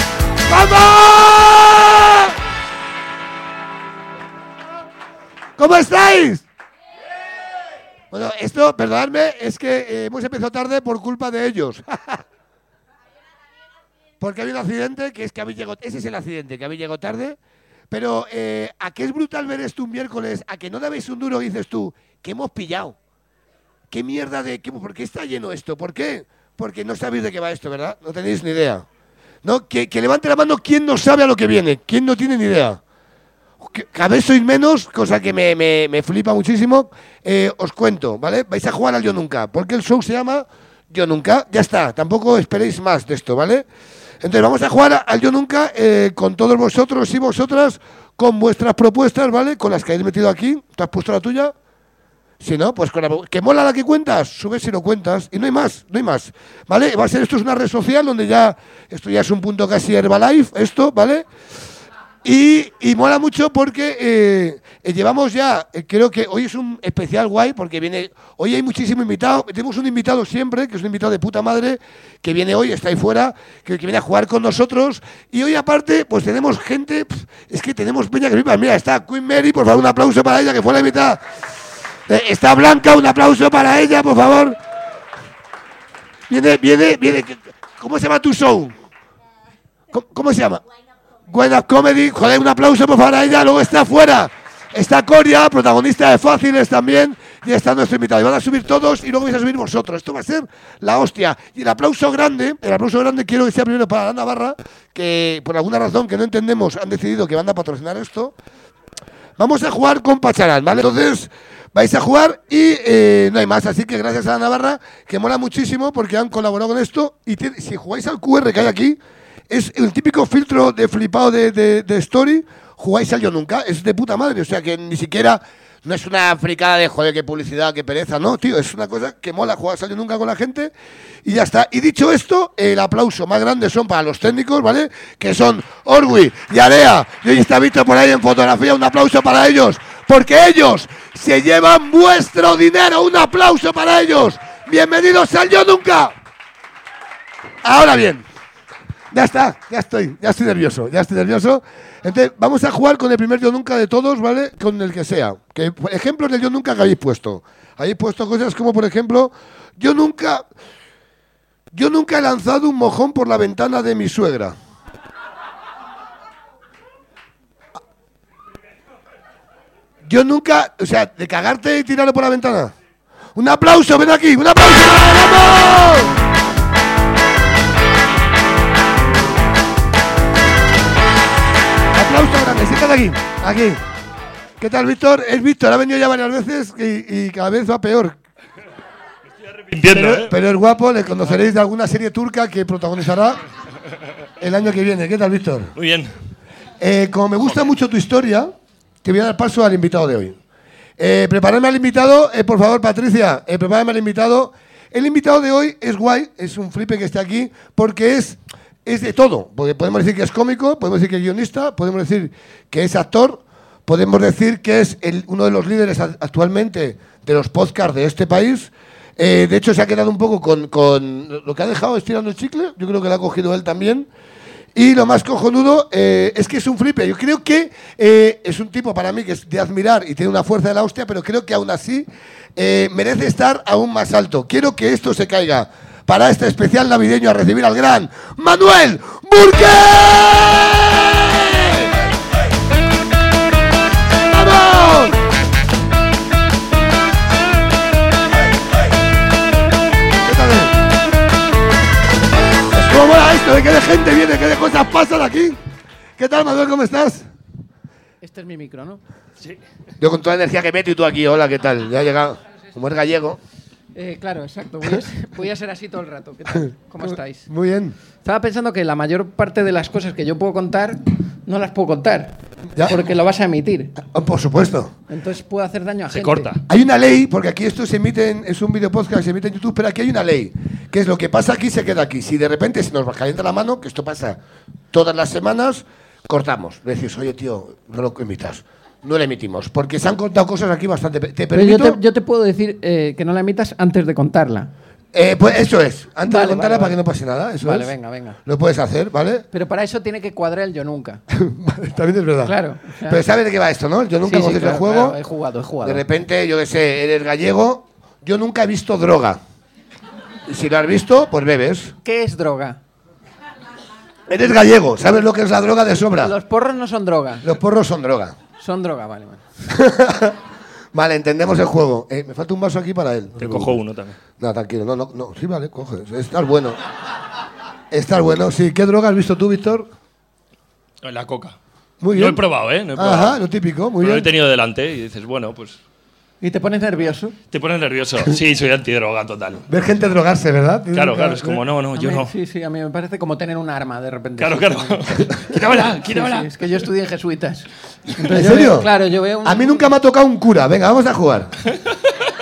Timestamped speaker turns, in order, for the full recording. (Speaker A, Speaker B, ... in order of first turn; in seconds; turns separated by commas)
Speaker A: 0.5-2.3, Speaker A: 5.6-6.4, Speaker A: 8.1-12.2, Speaker A: 14.2-17.4, Speaker A: 17.9-23.0, Speaker A: 23.9-28.9, Speaker A: 29.4-32.8, Speaker A: 33.6-43.7, Speaker A: 44.2-51.5, Speaker A: 52.4-61.3, Speaker A: 62.2-81.2, Speaker A: 82.1-84.6, Speaker A: 86.3-88.7, Speaker A: 89.9-90.6, Speaker A: 91.3-108.3, Speaker A: 109.4-119.0, Speaker A: 119.5-146.1, Speaker A: 147.6-148.3, Speaker A: 149.1-160.5, Speaker A: 161.7-164.6, Speaker A: 170.1-172.7, Speaker A: 173.3-176.2, Speaker A: 181.9-183.8, Speaker A: 184.6-188.2, Speaker B: 189.6-190.3, Speaker A: 189.9-193.4, Speaker A: 194.4-195.7, Speaker B: 195.8-196.1, Speaker A: 196.8-198.5, Speaker A: 199.0-200.4, Speaker A: 201.0-224.1, Speaker A: 224.8-241.9, Speaker A: 244.2-245.2, Speaker A: 250.2-250.8, Speaker A: 252.7-255.6, Speaker A: 256.2-257.3, Speaker C: 258.2-259.0, Speaker A: 260.0-263.4, Speaker C: 263.9-267.5, Speaker A: 267.0-268.0, Speaker C: 268.2-273.9, Speaker A: 274.0-274.9, Speaker C: 275.1-276.5, Speaker B: 276.1-276.6, Speaker A: 276.7-284.4, Speaker A: 284.9-292.0, Speaker C: 291.5-294.7, Speaker A: 295.1-297.9, Speaker C: 296.3-297.0, Speaker C: 297.6-298.4, Speaker A: 298.4-299.5, Speaker C: 299.5-301.2, Speaker A: 301.3-305.2, Speaker C: 302.4-303.2, Speaker C: 304.2-306.0, Speaker A: 305.8-309.4, Speaker A: 310.5-311.9, Speaker C: 312.1-312.8, Speaker A: 314.3-316.3, Speaker C: 316.2-317.5, Speaker A: 317.4-318.4, Speaker C: 318.6-319.4, Speaker A: 319.7-320.4, Speaker A: 320.9-323.8, Speaker B: 323.4-324.1, Speaker A: 324.4-326.8, Speaker A: 327.9-329.9, Speaker B: 331.0-331.6, Speaker A: 332.0-332.4, Speaker B: 332.1-333.4, Speaker A: 332.9-334.3, Speaker B: 334.0-335.8, Speaker C: 336.4-337.4, Speaker B: 337.5-339.6, Speaker A: 339.7-341.6, Speaker B: 340.9-342.3, Speaker C: 341.9-349.8, Speaker B: 344.4-346.5, Speaker A: 348.3-348.9, Speaker A: 349.4-351.5